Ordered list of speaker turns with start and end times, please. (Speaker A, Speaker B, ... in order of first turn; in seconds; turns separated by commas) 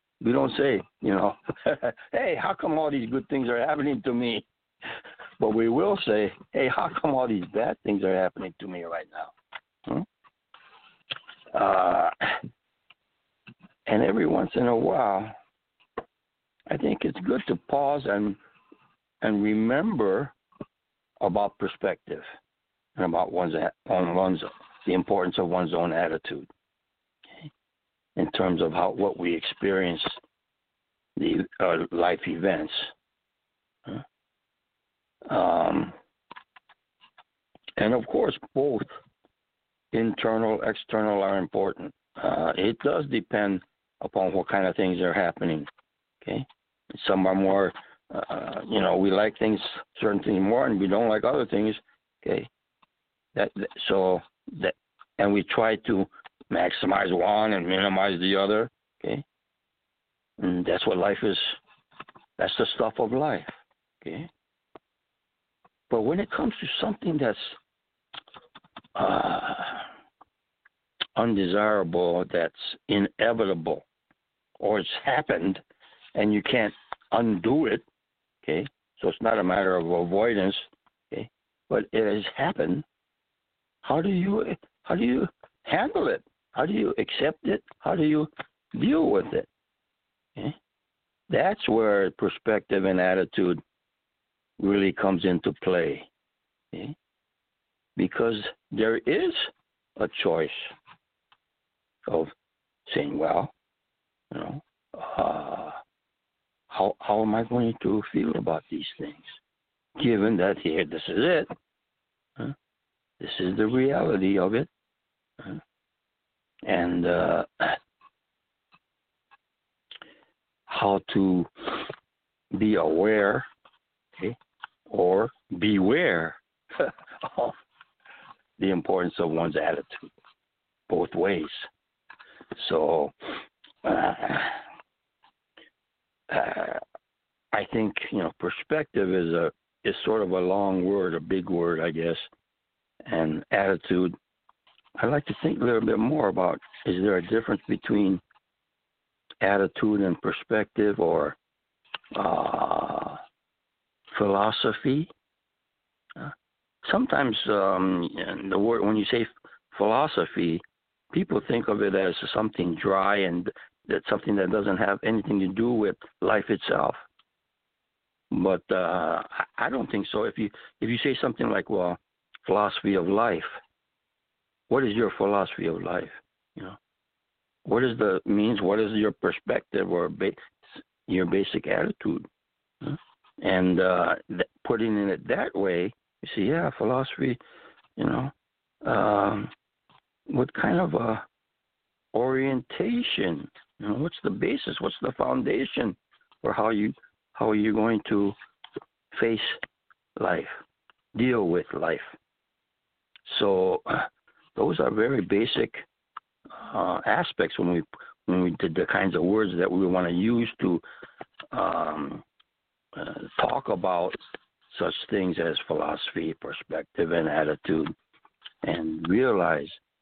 Speaker A: 0.2-4.5, Speaker A: 5.4-9.3, Speaker A: 11.5-12.4, Speaker A: 13.9-15.3, Speaker A: 16.7-18.4, Speaker A: 19.2-20.3, Speaker A: 21.2-22.2, Speaker A: 22.9-26.5, Speaker A: 28.1-30.2, Speaker A: 31.2-32.9, Speaker A: 35.2-35.9, Speaker A: 37.8-38.9, Speaker A: 39.9-45.7, Speaker A: 46.2-52.5, Speaker A: 53.3-59.2, Speaker A: 60.4-61.6, Speaker A: 62.4-64.3, Speaker A: 65.9-67.6, Speaker A: 68.9-69.9, Speaker A: 71.2-73.8, Speaker A: 74.6-75.6, Speaker A: 76.1-77.8, Speaker A: 78.4-82.8, Speaker A: 83.8-89.5, Speaker A: 91.3-93.6, Speaker A: 94.6-96.1, Speaker A: 98.0-100.7, Speaker A: 102.0-102.3, Speaker A: 102.9-103.5, Speaker A: 104.3-105.8, Speaker A: 106.7-109.4, Speaker A: 110.0-111.5, Speaker A: 113.2-114.7, Speaker A: 116.7-117.8, Speaker A: 120.7-121.9, Speaker A: 122.5-123.5, Speaker A: 124.9-127.5, Speaker A: 128.6-130.1, Speaker A: 130.9-131.7, Speaker A: 132.6-134.6, Speaker A: 136.3-136.8, Speaker A: 137.5-142.3, Speaker A: 143.0-144.2, Speaker A: 145.0-148.2, Speaker A: 149.4-151.4, Speaker A: 152.1-153.2, Speaker A: 154.1-155.1, Speaker A: 156.2-167.0, Speaker A: 168.3-173.6, Speaker A: 174.7-176.8, Speaker A: 177.6-182.3, Speaker A: 182.8-187.4, Speaker A: 188.0-189.5, Speaker A: 190.3-191.2, Speaker A: 192.1-198.3, Speaker A: 199.1-199.6, Speaker A: 200.2-200.6, Speaker A: 201.1-202.1, Speaker A: 203.2-205.8, Speaker A: 206.5-210.8, Speaker A: 211.5-212.2, Speaker A: 212.9-214.2, Speaker A: 214.7-217.9, Speaker A: 218.6-219.8